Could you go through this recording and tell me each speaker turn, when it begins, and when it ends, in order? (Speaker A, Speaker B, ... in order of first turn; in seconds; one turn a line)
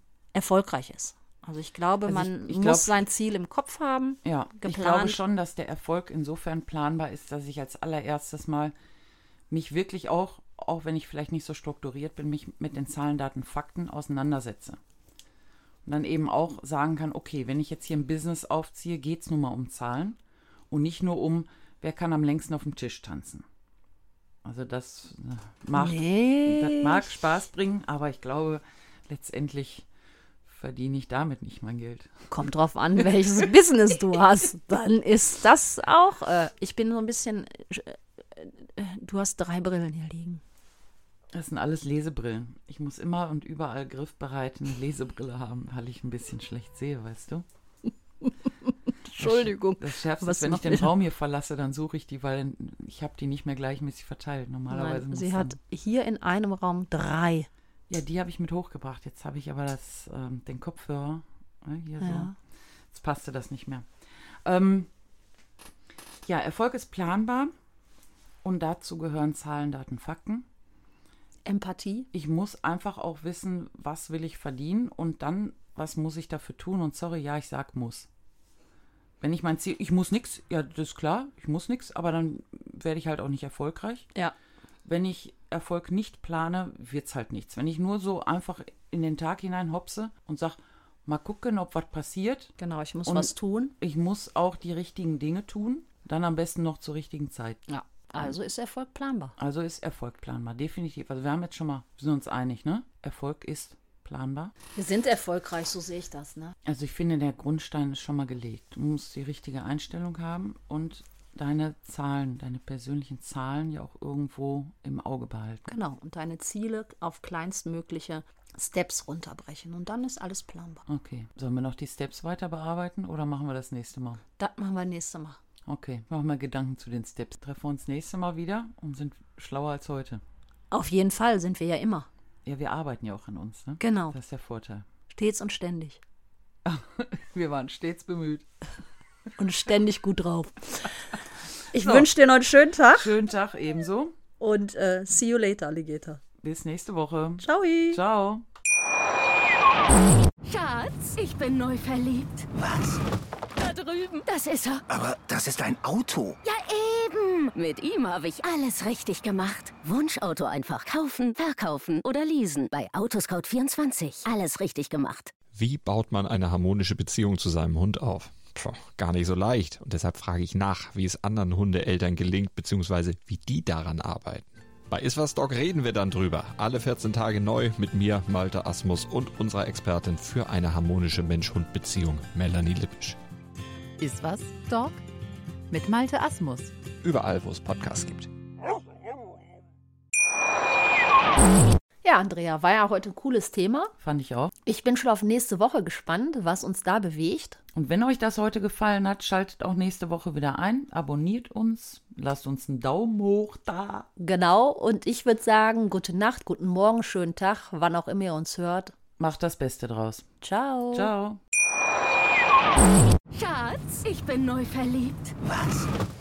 Speaker A: 0.3-5.2
Speaker B: 2.0-3.0
Speaker B: 4.2-8.7
Speaker B: 9.5-14.8
Speaker B: 15.8-20.2
Speaker B: 20.7-23.4
Speaker B: 24.4-29.9
Speaker A: 25.7-27.1
Speaker B: 30.4-32.3
Speaker A: 32.3-40.4
Speaker B: 41.3-47.5
Speaker A: 49.0-50.9
Speaker B: 49.2-55.6
Speaker A: 54.7-57.5
Speaker B: 57.9-62.3
Speaker A: 62.0-62.3
Speaker B: 62.9-63.9
Speaker B: 64.4-64.9
Speaker B: 66.2-67.5
Speaker B: 68.4-70.5
Speaker A: 71.5-72.1
Speaker B: 72.1-78.1
Speaker B: 79.2-84.1
Speaker B: 84.8-92.5
Speaker A: 92.6-93.7
Speaker B: 93.0-97.7
Speaker A: 97.7-99.3
Speaker B: 99.4-104.5
Speaker A: 104.8-106.5
Speaker B: 106.6-115.7
Speaker A: 115.7-120.8
Speaker B: 120.8-124.2
Speaker A: 124.4-125.4
Speaker B: 125.7-130.2
Speaker A: 130.7-132.1
Speaker B: 132.4-134.8
Speaker A: 133.8-134.2
Speaker A: 135.1-136.0
Speaker B: 136.6-138.4
Speaker A: 139.4-140.9
Speaker A: 141.7-143.1
Speaker B: 141.7-142.1
Speaker B: 142.9-144.2
Speaker A: 144.4-146.2
Speaker B: 146.4-148.4
Speaker A: 147.4-148.0
Speaker C: 150.4-152.5
Speaker D: 152.5-153.0
Speaker C: 153.6-154.8
Speaker D: 154.9-156.4
Speaker C: 156.4-165.3
Speaker E: 165.5-183.2
Speaker F: 184.0-185.0
Speaker F: 185.7-186.7
Speaker E: 187.0-188.3
Speaker A: 192.0-193.9
Speaker B: 194.0-194.5
Speaker A: 194.7-197.6
Speaker B: 197.7-204.1
Speaker A: 204.2-208.9
Speaker B: 209.2-210.3
Speaker A: 210.4-211.1
Speaker B: 210.9-211.4
Speaker C: 213.3-215.3
Speaker D: 215.4-215.9